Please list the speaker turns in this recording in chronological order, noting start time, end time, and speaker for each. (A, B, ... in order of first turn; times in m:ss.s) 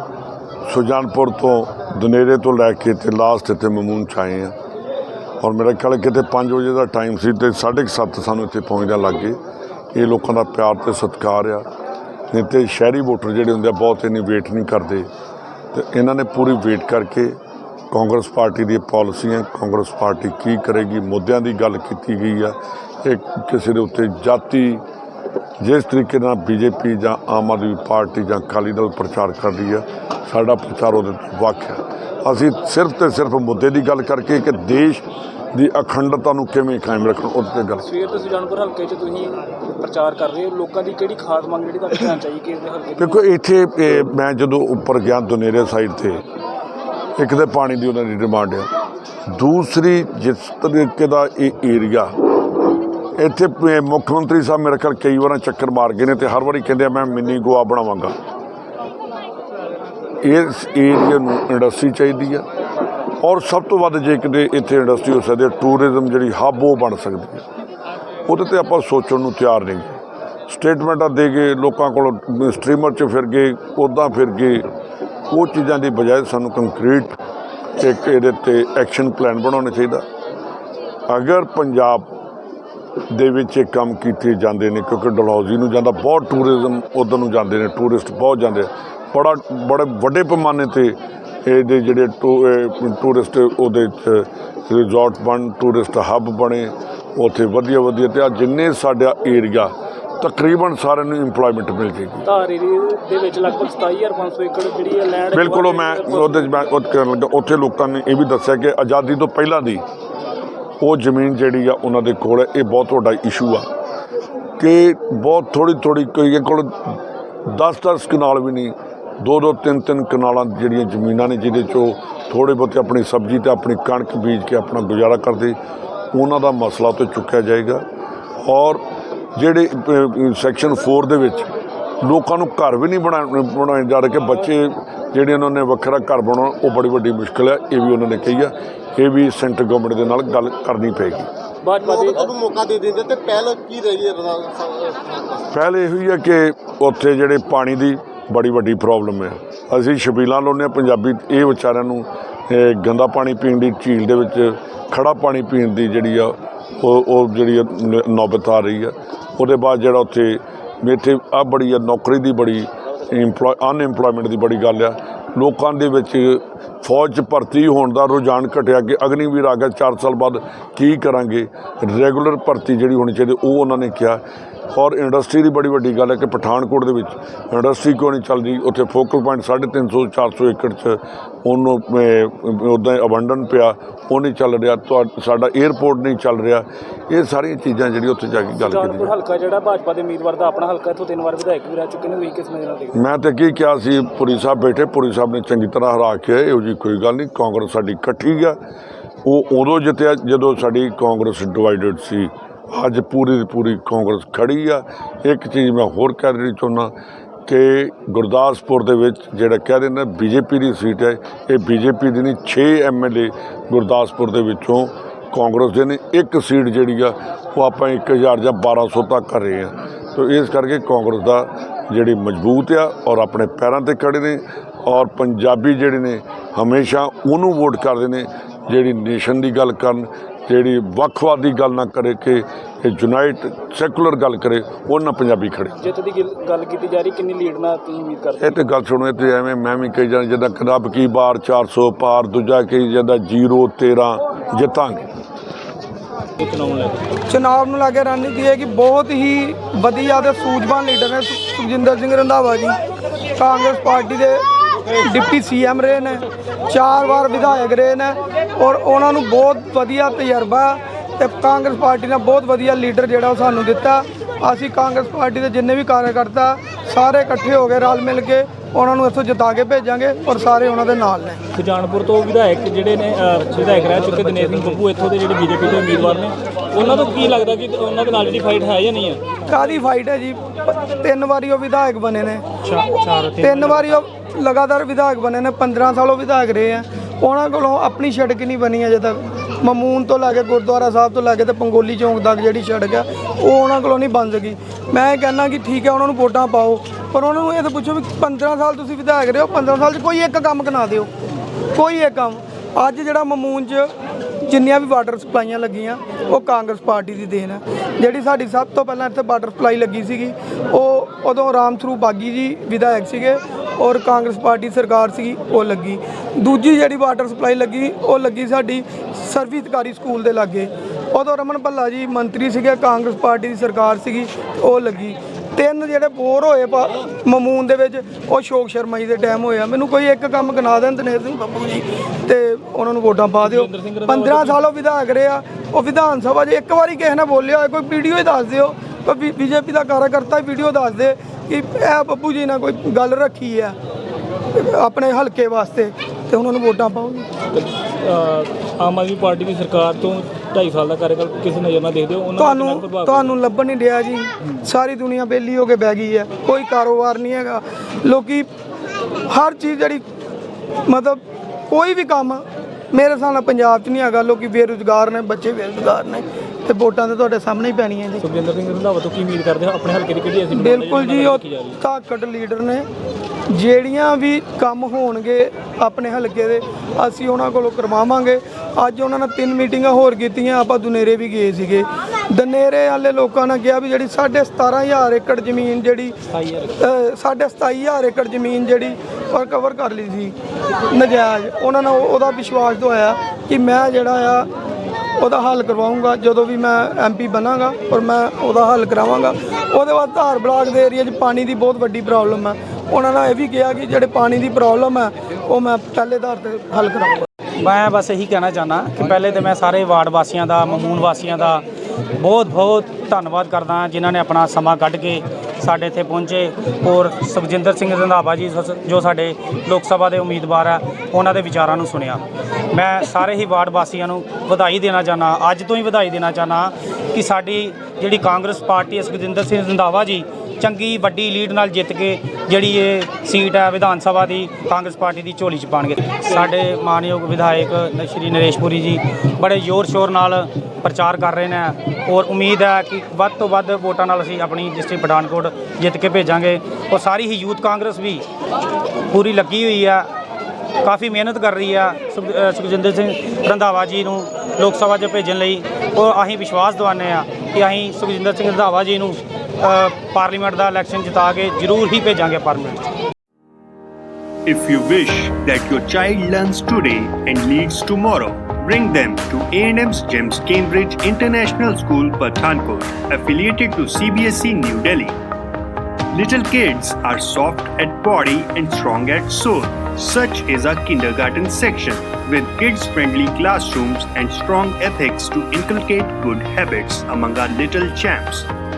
0:00.7-0:04.5 A
0:05.4-0:09.4 A
0:09.9-0:11.6 A
0:12.3-0:15.1 A
0:15.7-0:17.4 A
0:17.9-0:24.8 A
0:25.6-0:37.8 A
0:37.8-0:43.2 B
0:43.0-0:46.2 A
0:47.2-0:48.7 A
0:49.3-0:52.1 A
0:53.2-0:58.2 A
1:00.2-1:02.4 A
1:03.2-1:07.4 A
1:08.2-1:10.0 A
1:10.5-1:14.7 A
1:15.3-1:17.2 A
1:17.8-1:20.0 A
1:21.1-1:22.1 A
1:23.1-1:42.2 A
1:42.2-1:46.6 B
1:45.3-1:49.8 A
1:50.8-1:53.7 A
1:54.6-2:05.6 A
2:06.1-2:07.8 A
2:08.4-2:08.8 A
2:09.3-2:11.5 A
2:12.0-2:21.3 A
2:21.6-2:22.4 B
2:21.9-2:25.0 C
2:25.5-3:09.1 A
3:08.5-3:13.0 B
3:12.9-3:18.6 A
3:19.2-3:26.9 A
3:27.4-3:55.7 A
3:55.8-3:58.6 B
3:58.4-4:05.1 A
4:06.4-4:07.0 B
4:07.3-4:12.8 D
4:13.4-4:14.4 D
4:15.0-4:31.4 D
4:31.5-4:39.2 B
4:39.5-4:42.4 D
4:42.6-4:44.0 E
4:43.4-5:01.1 D
5:01.7-5:03.9 D
5:04.4-5:43.8 D
5:33.4-5:34.6 B
5:44.5-5:47.3 D
5:47.5-5:53.3 B
5:52.4-5:58.5 D
5:59.3-6:00.0 D
6:00.9-6:08.2 D
6:08.2-6:11.8 B
6:10.5-6:12.8 D
6:13.5-6:26.1 D
6:26.4-6:26.7 E
6:26.8-6:30.3 D
6:30.9-6:34.5 D
6:35.2-6:47.2 D
6:47.6-6:51.6 E
6:52.2-7:28.2 E
7:29.1-7:30.1 E
7:30.8-7:42.9 E
7:44.5-7:55.2 F
7:56.1-8:08.5 F